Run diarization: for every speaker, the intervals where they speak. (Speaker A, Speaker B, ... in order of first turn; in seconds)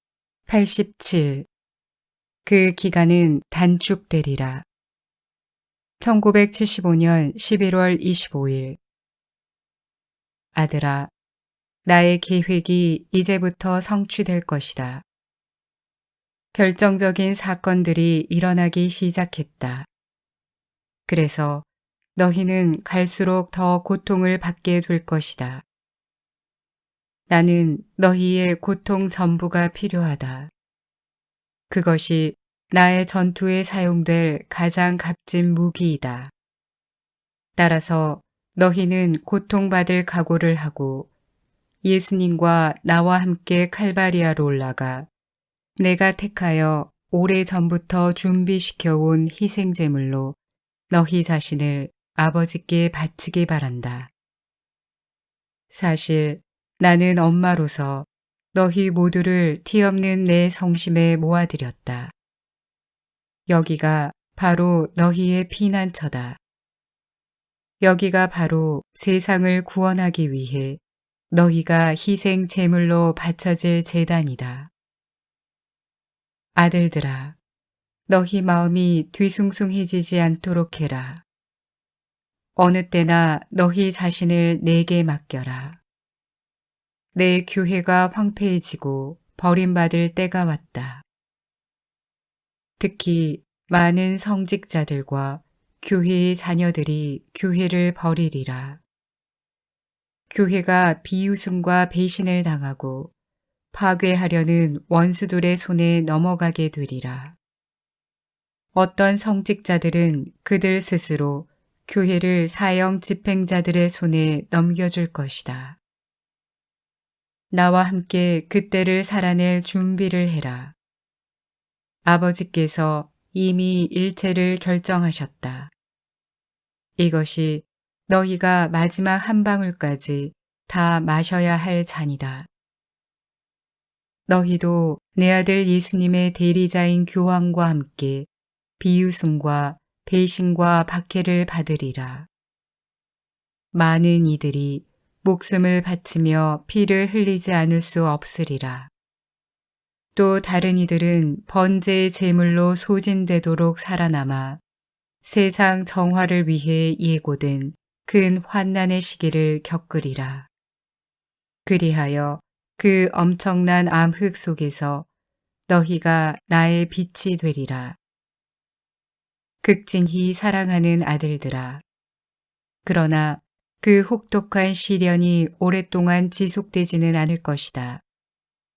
Speaker A: 0.5-1.5, 2.4-4.6, 6.0-8.8, 10.5-11.1, 11.8-15.0, 16.5-19.9, 21.1-21.6, 22.1-25.6, 27.3-30.5, 31.7-36.3, 37.6-41.1, 41.8-45.1, 45.8-50.4, 50.9-54.1, 55.7-62.1, 63.5-66.4, 67.8-70.8, 71.3-74.7, 76.5-77.3, 78.1-81.2, 82.5-85.8, 87.1-91.0, 92.8-98.8, 100.3-103.1, 103.7-107.3, 108.7-115.8, 117.5-120.7, 122.0-125.7, 127.0-132.5, 134.3-138.3, 138.8-142.3, 143.7-148.9, 150.2-154.6, 155.2-160.5, 161.7-165.1, 165.7-168.0, 169.6-171.8, 172.8-178.0